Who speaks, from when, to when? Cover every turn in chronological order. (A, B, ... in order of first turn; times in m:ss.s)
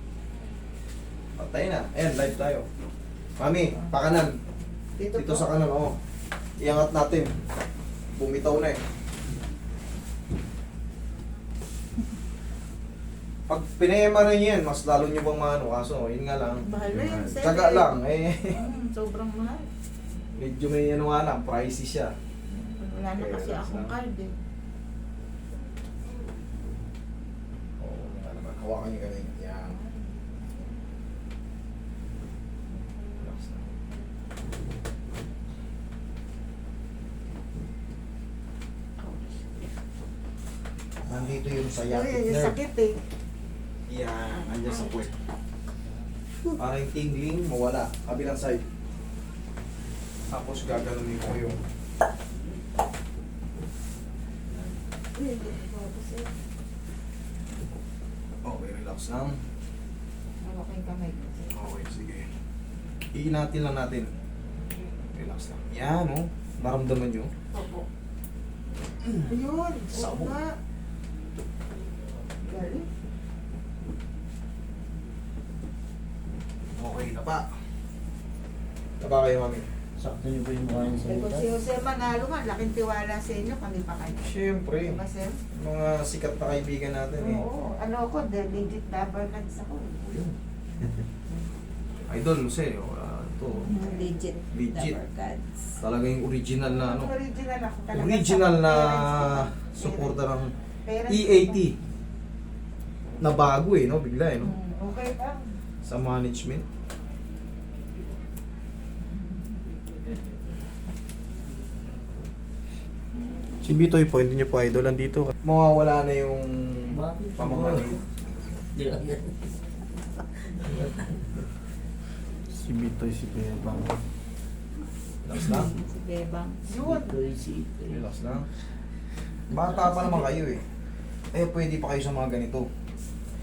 0:01.4-0:02.6 A
0:03.4-0:04.3 A
0:05.0-0:05.5 B
0:05.1-0:06.0 A
0:06.6-0:07.3 A
0:08.2-0:08.8 A
0:13.5-0:16.6 A
0:16.6-0:18.0 B
0:16.8-0:17.3 C
0:17.2-0:18.6 A
0:18.5-0:19.6 B
0:20.4-0:22.1 A
0:22.5-0:24.3 B
0:23.1-0:23.9 A
0:27.8-0:29.8 A
0:29.7-0:30.1 B
0:33.2-0:33.7 A
0:39.0-0:39.5 B
0:41.1-0:42.6 A
0:41.8-0:43.0 B
0:43.9-0:45.1 A
0:44.4-0:44.9 B
0:46.6-0:48.6 A
0:50.3-0:51.6 A
0:55.2-0:56.3 B
0:58.4-0:59.4 A
1:00.4-1:01.5 B
1:01.5-1:02.3 A
1:03.1-1:04.1 A
1:05.2-1:07.3 A
1:07.5-1:07.8 B
1:09.0-1:09.3 A
1:09.3-1:10.5 B
1:09.9-1:10.3 A
1:12.4-1:12.9 B
1:16.8-1:17.4 A
1:19.0-1:19.7 A
1:20.0-1:21.5 D
1:21.1-1:25.4 B
1:24.2-1:25.0 A
1:25.5-1:27.4 A
1:27.2-1:30.2 B
1:30.1-1:30.3 A
1:32.1-1:33.8 A
1:33.7-1:35.6 E
1:33.7-1:34.3 B
1:34.5-1:35.0 A
1:35.8-1:37.1 A
1:36.7-1:40.2 B
1:37.9-1:40.5 A
1:40.8-1:41.7 B
1:41.1-1:41.8 A
1:43.2-1:44.6 A
1:44.4-1:45.6 B
1:45.8-1:46.6 A
1:53.6-1:58.0 A
1:56.9-1:58.0 D
1:58.7-1:59.3 D
2:02.5-2:04.0 C
2:05.2-2:05.7 A
2:05.4-2:06.7 E
2:06.7-2:07.2 B
2:06.8-2:08.0 D
2:07.9-2:08.4 A
2:09.5-2:10.6 A
2:09.5-2:10.3 E
2:11.3-2:12.7 A